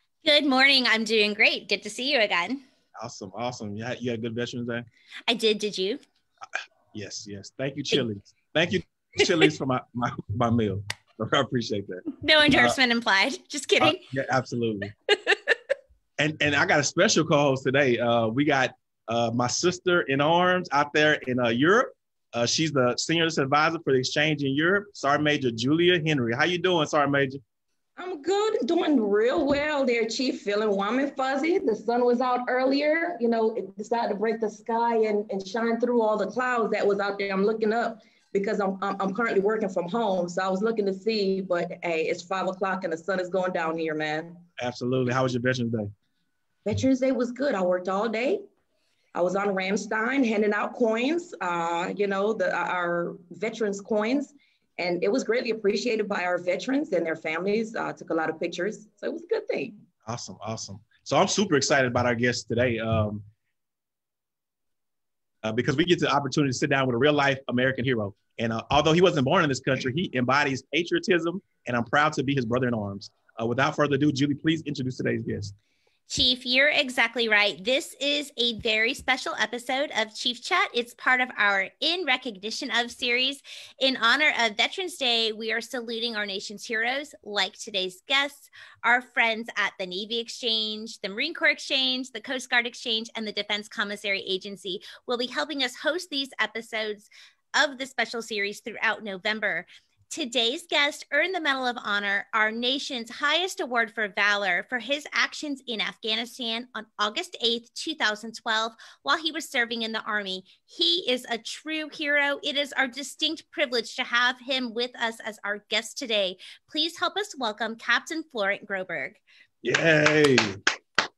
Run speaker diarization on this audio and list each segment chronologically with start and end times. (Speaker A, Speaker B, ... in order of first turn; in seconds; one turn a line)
Speaker A: 0.2-2.6
Speaker B: 3.0-4.8
Speaker A: 5.3-6.0
Speaker B: 6.9-12.8
Speaker A: 12.2-14.0
Speaker B: 13.8-14.9
Speaker A: 15.1-15.4
Speaker B: 16.2-27.4
Speaker C: 28.0-44.4
Speaker B: 44.6-45.9
Speaker C: 46.6-48.4
Speaker C: 49.1-59.8
Speaker B: 60.0-63.2
Speaker B: 65.4-75.5
Speaker A: 76.1-119.2
Speaker B: 119.6-120.5